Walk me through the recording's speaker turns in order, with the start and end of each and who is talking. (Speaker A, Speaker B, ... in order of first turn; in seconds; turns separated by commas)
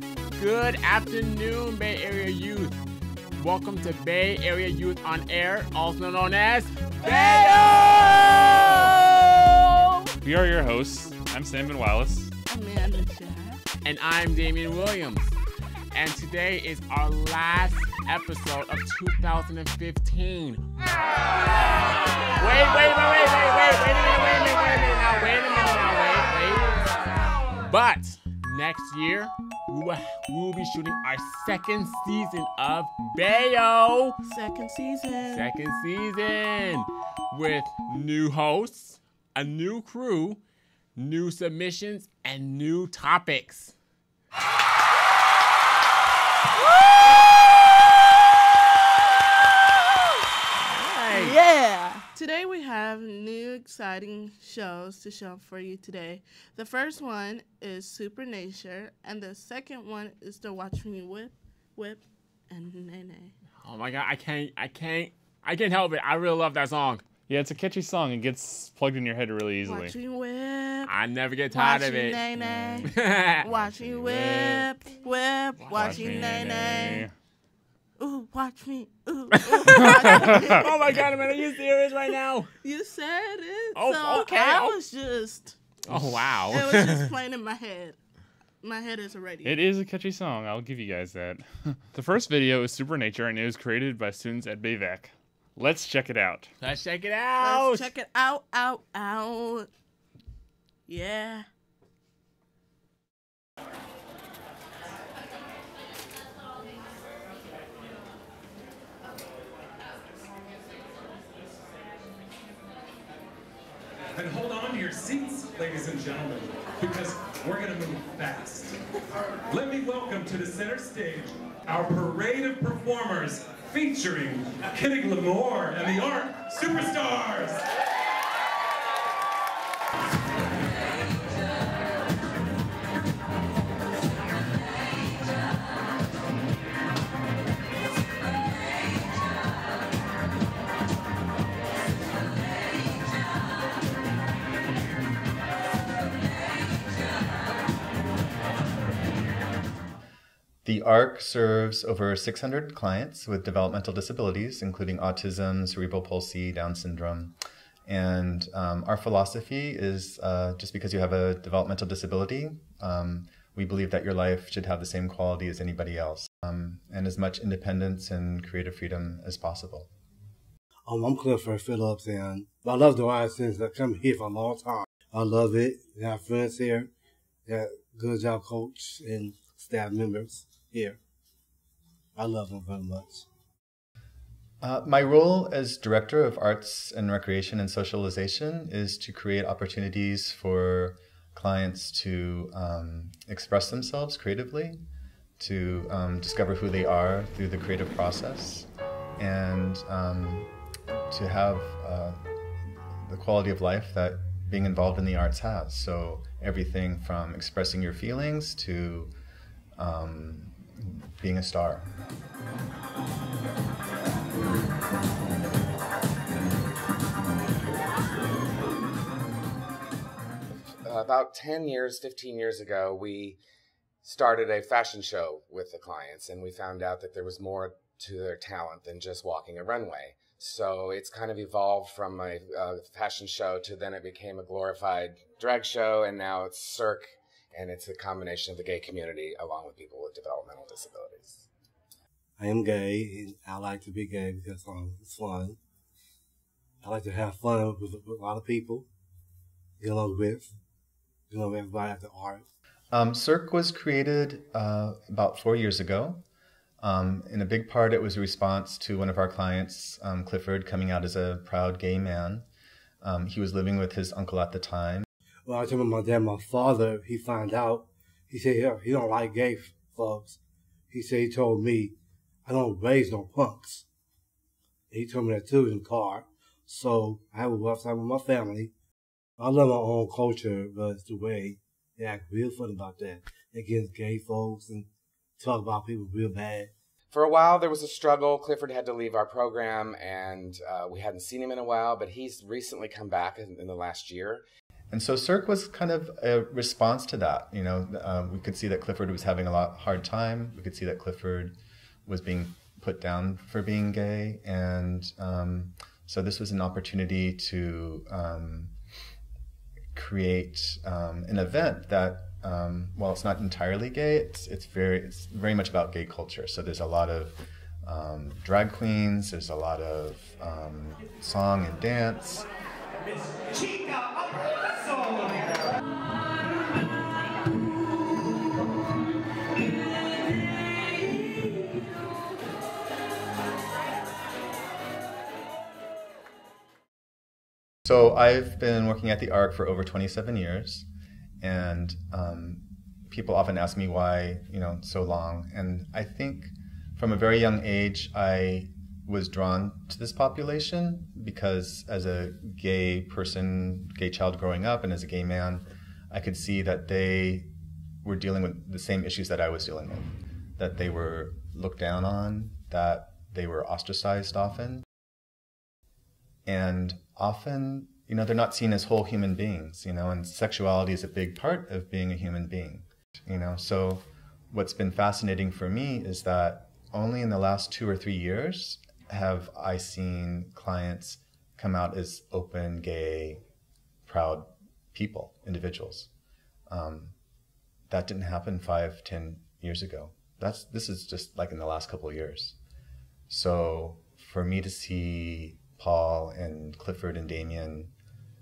Speaker A: 0.4-2.8, Speaker A: 3.3-10.1, Speaker B: 7.1-8.0, Speaker C: 10.2-12.3, Speaker B: 12.5-13.6, Speaker A: 13.8-15.3, Speaker A: 15.9-27.1, Speaker A: 27.6-34.2, Speaker B: 34.2-35.5, Speaker A: 35.2-40.4, Speaker A: 41.0-43.7, Speaker A: 50.6-51.4, Speaker B: 51.1-63.4, Speaker A: 63.6-67.0, Speaker C: 67.3-69.9, Speaker B: 69.7-70.9, Speaker A: 70.9-74.6, Speaker B: 71.5-77.0, Speaker C: 73.8-74.6, Speaker A: 75.6-76.7, Speaker C: 75.7-77.1, Speaker B: 78.0-81.0, Speaker A: 79.5-82.5, Speaker B: 82.6-85.6, Speaker A: 83.7-84.8, Speaker A: 85.9-87.1, Speaker B: 86.5-88.0, Speaker B: 88.6-89.6, Speaker C: 89.4-96.5, Speaker A: 96.6-97.9, Speaker B: 97.4-99.7, Speaker B: 100.9-101.5, Speaker D: 114.2-118.8, Speaker D: 119.5-127.7, Speaker E: 150.6-169.9, Speaker F: 170.9-176.9, Speaker F: 177.5-181.0, Speaker F: 182.2-183.3, Speaker E: 184.6-194.8, Speaker E: 195.4-200.5, Speaker E: 201.1-202.2, Speaker E: 202.9-209.1, Speaker E: 209.8-211.9, Speaker G: 220.8-223.4, Speaker G: 224.0-241.5, Speaker F: 242.4-245.6, Speaker F: 246.8-248.9, Speaker F: 249.8-250.5, Speaker F: 251.3-252.4, Speaker E: 252.9-256.2, Speaker E: 256.8-262.5, Speaker E: 263.0-265.1, Speaker F: 265.5-270.4, Speaker F: 270.9-271.9, Speaker F: 272.5-273.8, Speaker F: 274.9-278.7, Speaker F: 279.4-284.9, Speaker F: 285.4-286.7, Speaker G: 287.1-294.4, Speaker E: 294.9-308.8, Speaker E: 309.9-322.5, Speaker E: 337.9-340.9, Speaker E: 341.4-357.5, Speaker E: 358.0-364.9, Speaker E: 366.5-383.4, Speaker E: 384.1-386.1, Speaker E: 386.7-387.1, Speaker E: 387.9-392.6, Speaker E: 393.3-397.9